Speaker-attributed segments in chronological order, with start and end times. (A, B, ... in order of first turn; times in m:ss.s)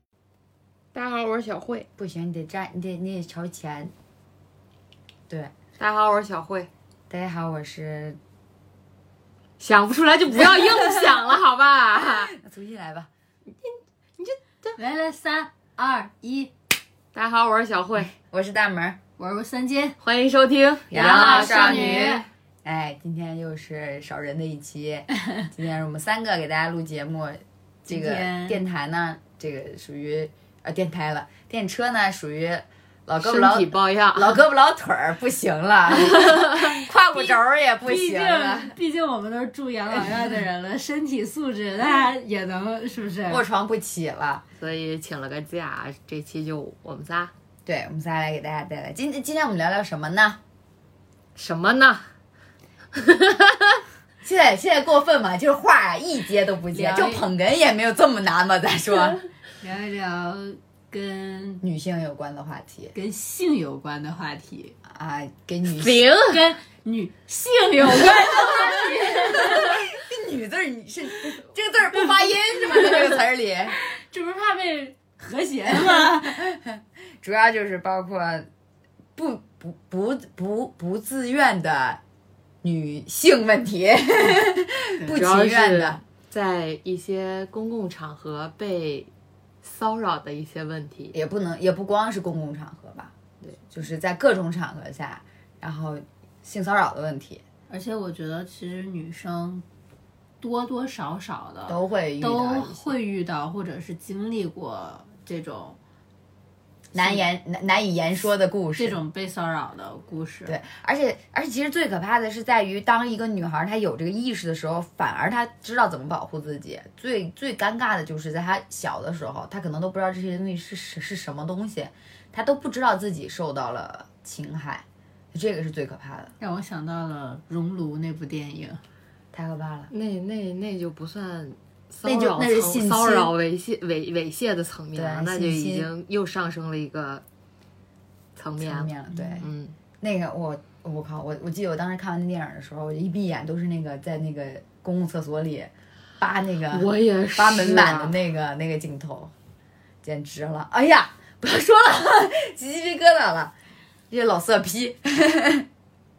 0:00.9-0:01.9 A
0:02.0-0:03.9 B
0:05.8-0:06.7 A
0:07.1-0:08.2 B
0:09.6-0:12.3 A
0:12.0-0:13.1 B
0:13.6-0:14.8 A
0:14.8-0:16.5 C
0:17.1-0:18.1 A
0:18.0-0:19.0 B
0:19.2-0:20.0 C
0:20.0-0:22.2 A
0:20.9-0:38.8 B
0:20.9-0:22.3 C
0:27.9-0:28.6 C
0:33.2-0:34.4 A
0:37.1-0:43.4 C
0:43.3-0:44.4 B
0:44.6-0:47.3 A
0:47.6-0:50.4 B
0:51.4-0:52.1 A
0:53.0-0:53.8 A
0:54.2-0:59.2 B
0:56.7-0:57.3 C
0:59.6-1:01.6 C
1:01.6-1:03.0 B
1:02.9-1:04.8 C
1:04.9-1:06.1 B
1:05.8-1:06.4 A
1:06.1-1:09.8 C
1:07.9-1:13.8 B
1:12.8-1:13.0 C
1:13.8-1:16.5 C
1:15.7-1:18.5 B
1:19.2-1:22.0 B
1:22.6-1:26.0 B
1:25.1-1:29.1 A
1:29.6-1:31.2 A
1:31.1-1:33.1 B
1:33.6-1:37.4 B
1:37.7-1:39.6 C
1:40.4-1:45.8 C
1:41.7-1:42.9 B
1:46.9-1:49.0 B
1:47.0-1:47.2 C
1:48.8-1:50.6 C
1:50.5-2:06.3 B
2:06.4-2:08.8 C
2:09.3-2:09.9 B
2:09.9-2:17.2 A
2:12.0-2:13.4 B
2:14.9-2:15.9 B
2:18.4-2:19.8 A
2:18.6-2:19.5 B
2:20.0-2:29.3 B
2:26.7-2:28.2 A
2:30.0-2:33.5 B
2:34.1-2:35.7 B